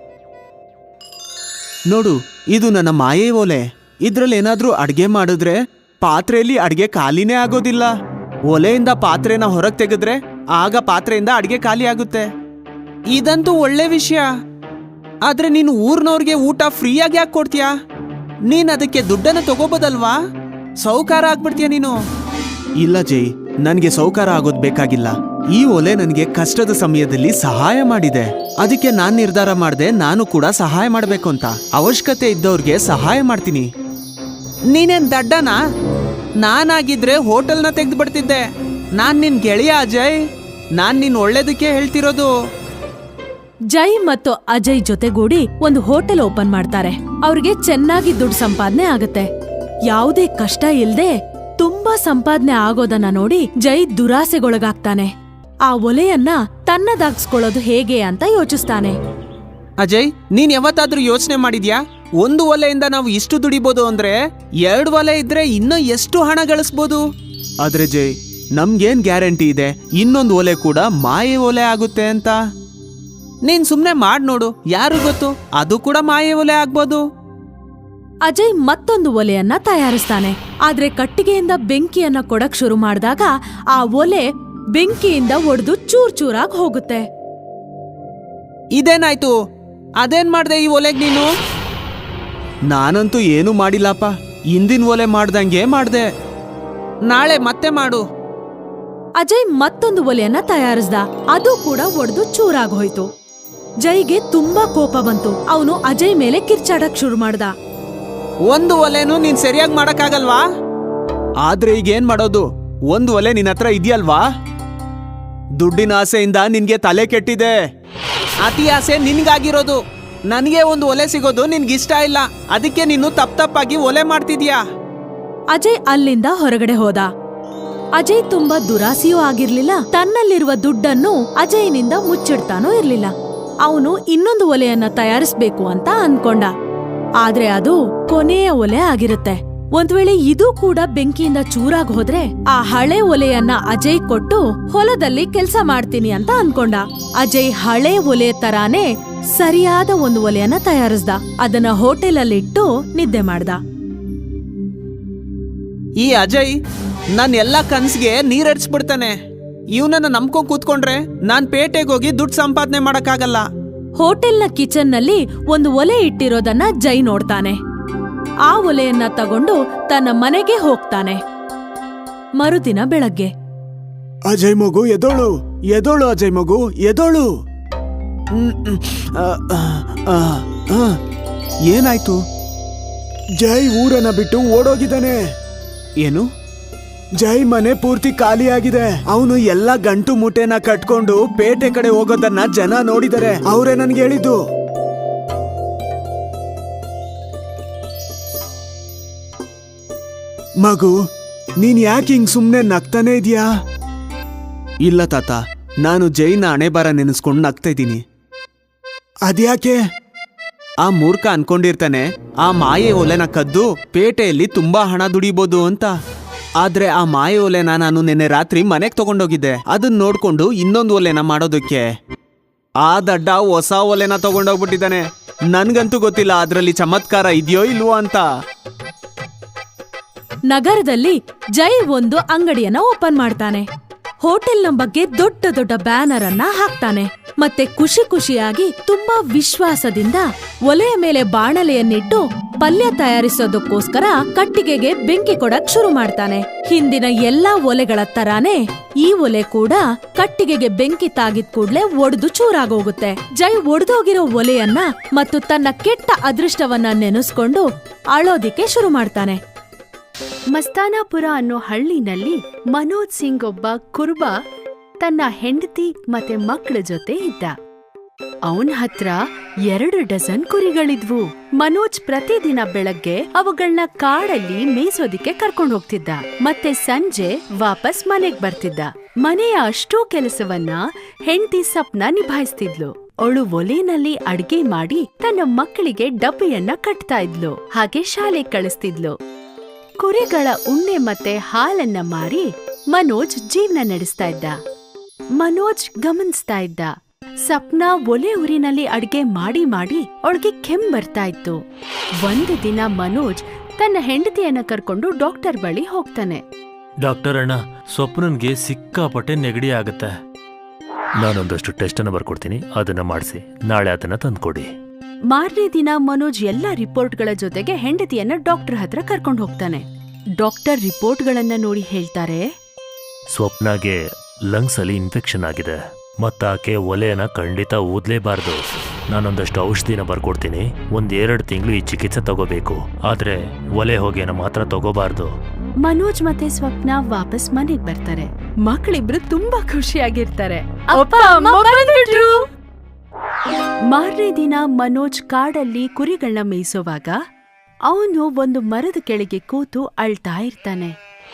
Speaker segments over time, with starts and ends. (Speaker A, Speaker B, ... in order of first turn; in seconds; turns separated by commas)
Speaker A: 1.9-7.9, Speaker A: 8.5-12.3, Speaker A: 13.1-14.3, Speaker A: 15.2-17.7, Speaker A: 18.5-20.2, Speaker A: 20.8-21.9, Speaker A: 22.8-33.7, Speaker A: 34.7-35.6, Speaker A: 36.4-38.4, Speaker A: 39.0-40.2, Speaker A: 40.8-42.3, Speaker B: 43.7-49.3, Speaker B: 49.9-55.1, Speaker B: 55.7-59.0, Speaker A: 59.8-67.0, Speaker A: 67.6-72.3, Speaker A: 73.5-77.0, Speaker B: 78.2-84.2, Speaker B: 84.7-87.0, Speaker A: 88.8-89.3, Speaker A: 90.0-91.3, Speaker A: 92.7-96.1, Speaker A: 97.1-98.0, Speaker B: 99.2-103.1, Speaker B: 103.8-107.5, Speaker A: 108.5-110.4, Speaker A: 111.4-114.2, Speaker A: 115.6-117.6, Speaker A: 118.4-119.8, Speaker A: 120.3-124.6, Speaker B: 125.5-127.1, Speaker B: 128.0-133.1, Speaker B: 133.6-136.5, Speaker B: 137.2-153.6, Speaker A: 156.0-156.6, Speaker A: 157.1-159.1, Speaker A: 159.8-163.4, Speaker B: 164.0-167.6, Speaker B: 168.5-171.2, Speaker B: 172.4-173.3, Speaker A: 174.3-177.3, Speaker A: 178.4-180.9, Speaker A: 181.7-182.2, Speaker A: 183.4-185.2, Speaker A: 187.2-194.4, Speaker A: 200.6-200.9, Speaker A: 201.6-203.5, Speaker A: 204.8-208.0, Speaker A: 209.3-209.8, Speaker A: 210.8-215.9, Speaker A: 216.6-221.8, Speaker A: 222.8-228.2, Speaker B: 230.5-233.7, Speaker B: 234.2-259.4, Speaker C: 260.5-264.3, Speaker C: 265.0-267.5, Speaker C: 268.5-289.1, Speaker C: 290.0-294.5, Speaker C: 295.4-296.9, Speaker C: 297.5-301.6, Speaker C: 302.2-306.4, Speaker D: 307.0-310.1, Speaker D: 311.2-314.7, Speaker C: 315.3-319.8, Speaker C: 320.4-322.4, Speaker D: 323.3-324.0, Speaker D: 324.5-335.3, Speaker C: 335.8-342.4, Speaker B: 341.1-342.2, Speaker C: 343.9-347.2, Speaker C: 347.9-350.9